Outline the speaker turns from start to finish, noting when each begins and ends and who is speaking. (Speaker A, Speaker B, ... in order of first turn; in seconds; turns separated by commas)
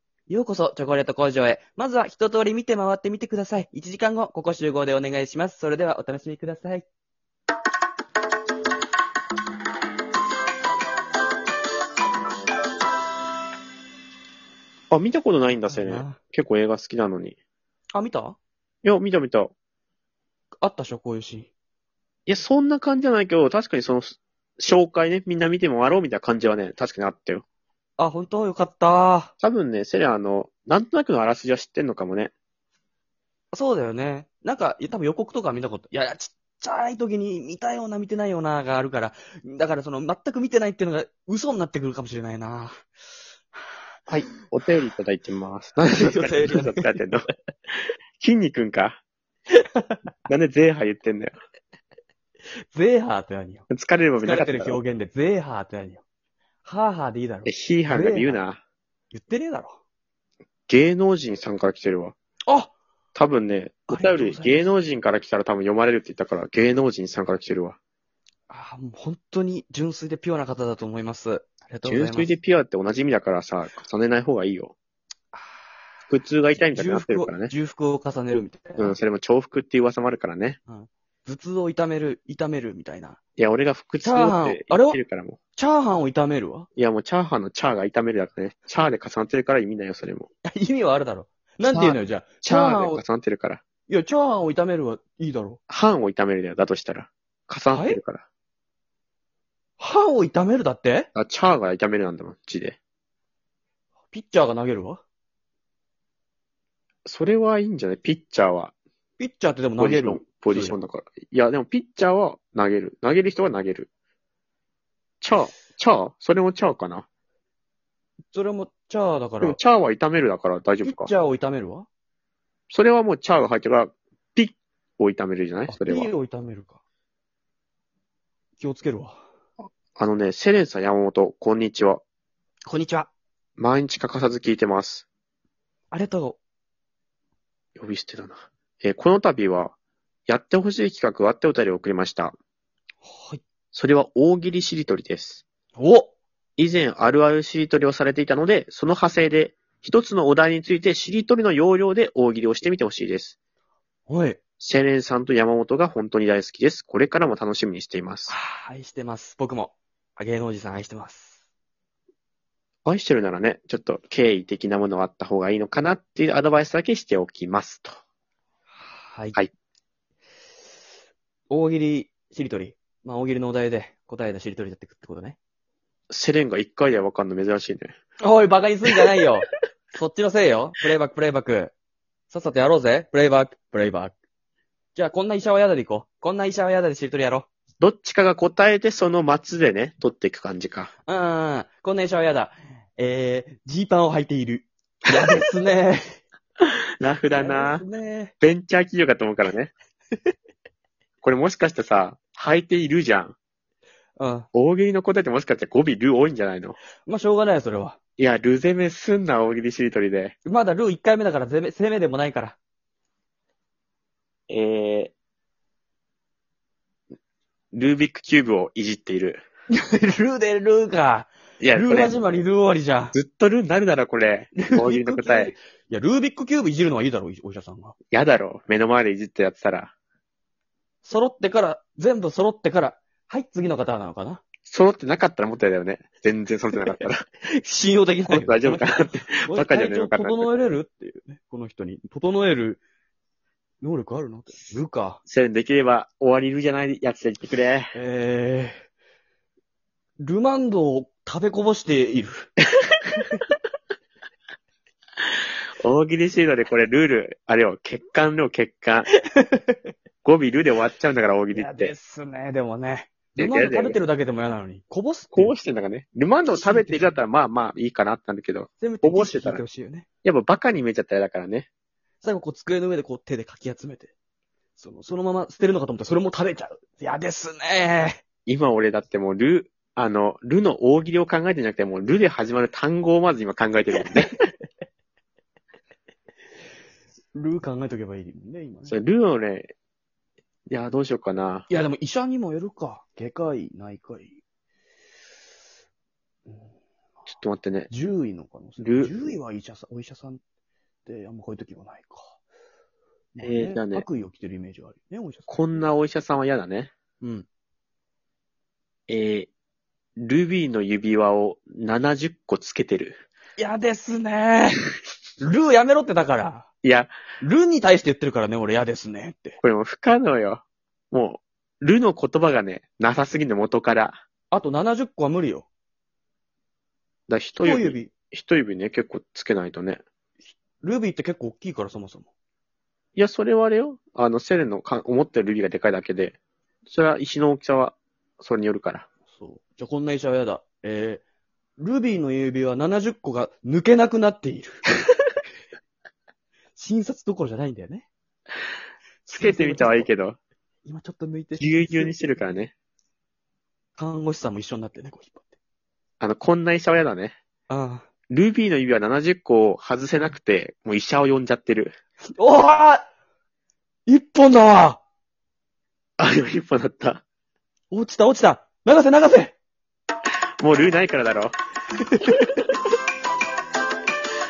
Speaker A: 0.3-6.8, Speaker B: 14.9-17.4, Speaker A: 15.7-16.2, Speaker A: 17.9-18.4, Speaker B: 18.8-19.5, Speaker A: 20.6-21.5, Speaker B: 22.2-27.4, Speaker A: 28.0-29.3, Speaker B: 29.4-32.3, Speaker A: 33.5-42.8, Speaker B: 44.1-47.2, Speaker A: 45.9-46.9, Speaker B: 48.2-49.0, Speaker A: 49.5-50.0, Speaker B: 50.3-51.3, Speaker A: 52.7-53.6, Speaker B: 53.7-54.8, Speaker A: 54.2-56.0, Speaker A: 56.6-58.4, Speaker B: 57.4-58.6, Speaker A: 59.1-59.8, Speaker B: 60.7-62.1, Speaker A: 62.5-62.7, Speaker B: 63.1-67.8, Speaker A: 63.9-64.7, Speaker A: 68.5-72.3, Speaker B: 71.8-74.7, Speaker A: 75.3-75.6, Speaker B: 76.1-77.5, Speaker A: 76.7-79.0, Speaker B: 78.8-80.6, Speaker A: 80.7-83.2, Speaker B: 83.4-85.4, Speaker A: 84.0-85.0, Speaker A: 85.5-86.7, Speaker B: 86.8-90.3, Speaker A: 90.5-93.0, Speaker B: 91.7-93.6, Speaker A: 93.9-95.6, Speaker B: 95.7-98.2, Speaker A: 97.7-98.0, Speaker A: 99.8-101.1, Speaker B: 101.1-102.8, Speaker A: 104.1-105.0, Speaker B: 107.0-108.7, Speaker A: 109.2-110.8, Speaker B: 109.8-113.9, Speaker B: 115.2-117.0, Speaker A: 118.3-119.6, Speaker B: 119.4-121.1, Speaker A: 120.8-121.9, Speaker B: 122.7-126.1, Speaker A: 125.7-126.8, Speaker A: 128.6-129.2, Speaker B: 129.9-132.0, Speaker A: 132.7-133.1, Speaker B: 133.6-135.1, Speaker A: 135.9-136.4, Speaker B: 137.8-139.7, Speaker B: 140.3-142.3, Speaker A: 143.0-143.4, Speaker B: 143.7-145.4, Speaker A: 145.8-146.1, Speaker B: 146.6-153.3, Speaker A: 154.1-154.4, Speaker B: 154.6-158.3, Speaker A: 158.3-161.4, Speaker B: 162.8-167.9, Speaker A: 168.9-169.3, Speaker A: 171.5-175.4, Speaker B: 176.1-177.9, Speaker A: 178.2-181.7, Speaker A: 182.3-184.1, Speaker A: 184.9-187.5, Speaker B: 187.8-190.9, Speaker A: 191.1-196.2, Speaker B: 196.6-197.8, Speaker A: 197.3-198.3, Speaker B: 198.4-199.7, Speaker B: 201.2-203.3, Speaker A: 204.2-204.5, Speaker B: 204.5-206.8, Speaker A: 207.1-208.0, Speaker B: 208.2-210.3, Speaker A: 210.4-212.6, Speaker B: 214.5-215.1, Speaker B: 217.7-219.4, Speaker A: 219.7-223.2, Speaker B: 221.6-222.2, Speaker B: 223.1-225.5, Speaker A: 224.6-227.9, Speaker B: 228.1-229.9, Speaker A: 231.0-234.4, Speaker B: 234.7-237.2, Speaker A: 236.9-238.9, Speaker B: 238.3-240.5, Speaker A: 239.4-242.8, Speaker A: 243.8-245.2, Speaker B: 245.3-247.9, Speaker A: 247.9-248.8, Speaker A: 250.2-252.5, Speaker B: 255.8-259.1, Speaker A: 259.3-259.8, Speaker B: 260.2-261.9, Speaker A: 261.5-265.5, Speaker B: 263.4-264.0, Speaker B: 265.3-269.6, Speaker A: 266.5-267.2, Speaker A: 268.8-270.1, Speaker B: 270.2-271.7, Speaker A: 272.2-274.1, Speaker A: 274.8-278.2, Speaker B: 278.4-284.4, Speaker A: 287.3-289.0, Speaker B: 288.9-289.7, Speaker B: 290.7-291.7, Speaker A: 291.7-294.4, Speaker A: 296.5-296.7, Speaker B: 297.3-297.9, Speaker A: 297.9-300.4, Speaker B: 298.8-299.1, Speaker A: 301.1-302.4, Speaker A: 303.3-305.8, Speaker B: 303.4-304.1, Speaker B: 305.5-306.9, Speaker A: 307.2-307.5, Speaker B: 309.1-309.5, Speaker B: 310.2-313.2, Speaker A: 313.6-314.8, Speaker A: 315.4-316.6, Speaker B: 316.8-317.1, Speaker A: 317.4-319.6, Speaker B: 319.6-324.2, Speaker A: 324.5-325.7, Speaker B: 327.3-330.0, Speaker A: 327.6-328.1, Speaker A: 330.8-332.3, Speaker B: 333.1-339.1, Speaker A: 339.3-341.2, Speaker A: 341.8-344.8, Speaker A: 346.8-348.1, Speaker A: 349.2-350.1, Speaker B: 349.4-350.4, Speaker A: 350.9-352.2, Speaker B: 351.6-352.7, Speaker A: 354.0-355.5, Speaker B: 356.2-357.4, Speaker A: 357.7-358.1, Speaker B: 358.3-361.9, Speaker A: 362.4-363.1, Speaker A: 364.1-365.0, Speaker B: 366.2-367.2, Speaker A: 367.9-369.5, Speaker B: 370.6-371.5, Speaker A: 372.1-372.4